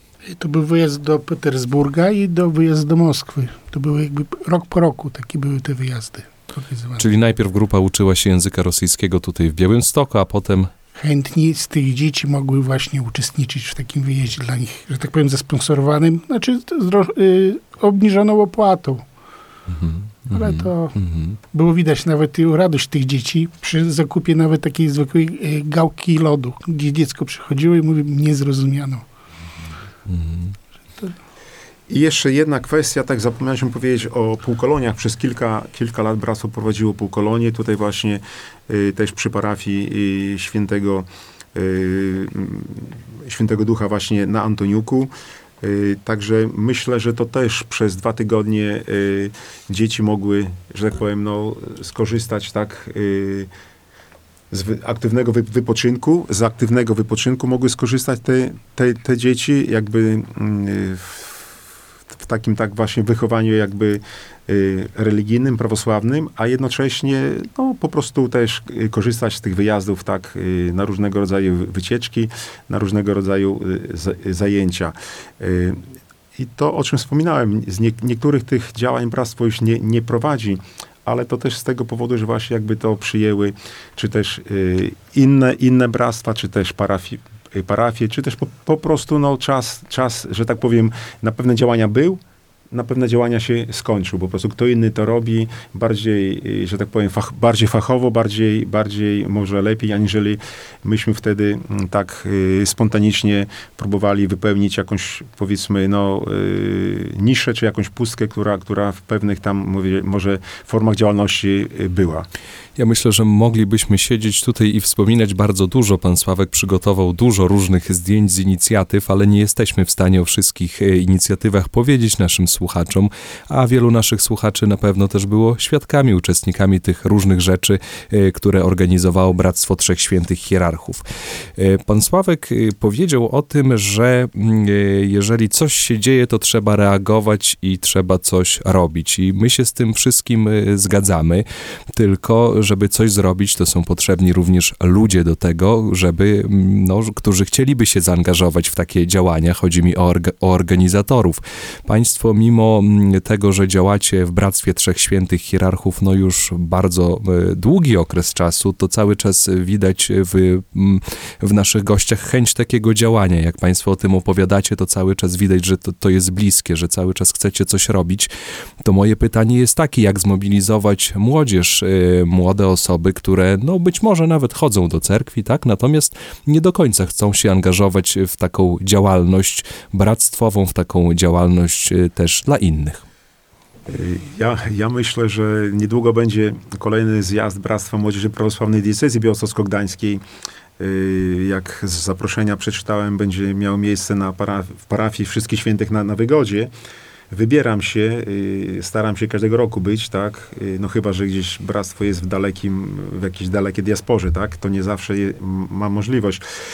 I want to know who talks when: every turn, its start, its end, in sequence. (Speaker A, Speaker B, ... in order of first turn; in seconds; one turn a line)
Speaker A: 0.2-7.0
Speaker B: 7.0-10.7
Speaker A: 10.9-19.0
Speaker B: 19.7-21.4
Speaker A: 20.3-20.9
Speaker A: 21.5-29.0
Speaker B: 30.1-30.5
Speaker C: 31.9-45.1
Speaker C: 45.6-53.5
Speaker C: 54.5-61.4
Speaker C: 62.2-75.8
Speaker C: 76.3-92.2
Speaker C: 92.7-112.3
Speaker B: 112.8-131.0
Speaker B: 131.6-168.3
Speaker B: 168.8-183.0
Speaker C: 183.9-190.2
Speaker C: 190.8-196.7
Speaker C: 197.3-206.4